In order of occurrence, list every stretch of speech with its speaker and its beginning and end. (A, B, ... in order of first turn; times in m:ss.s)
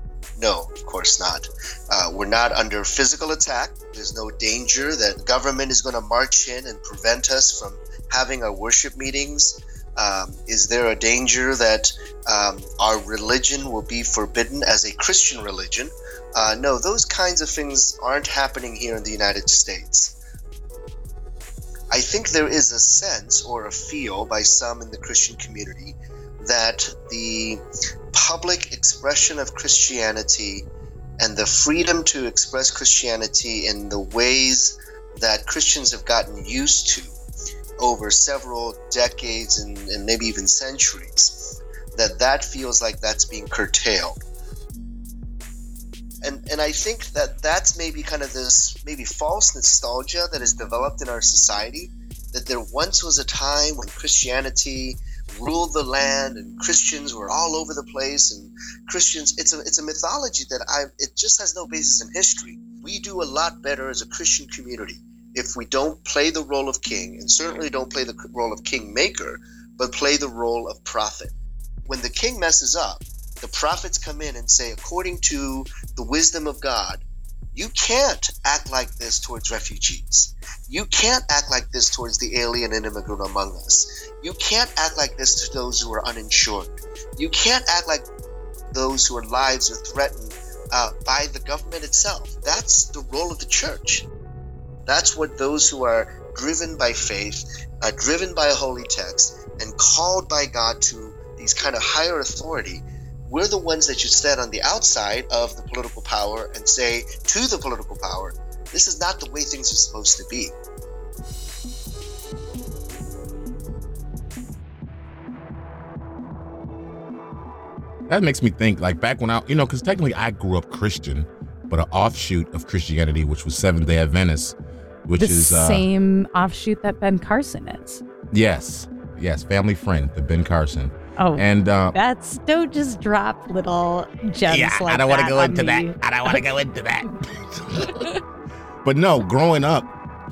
0:00.4-0:20.1 A
0:21.9-0:27.6 A
0:28.1-0:30.6 A
0:31.2-0:37.1 A
0:37.8-0:44.2 A
0:46.2-1:11.3 A
1:11.9-1:17.0 A
1:17.5-1:28.0 A
1:28.7-1:34.1 A
1:34.9-1:50.6 A
1:58.1-2:04.6 B
2:05.1-2:05.8 B
2:05.2-2:08.0 C
2:08.3-2:11.9 B
2:11.2-2:16.4 C
2:14.5-2:18.1 B
2:17.9-2:18.2 C
2:18.8-2:19.9 B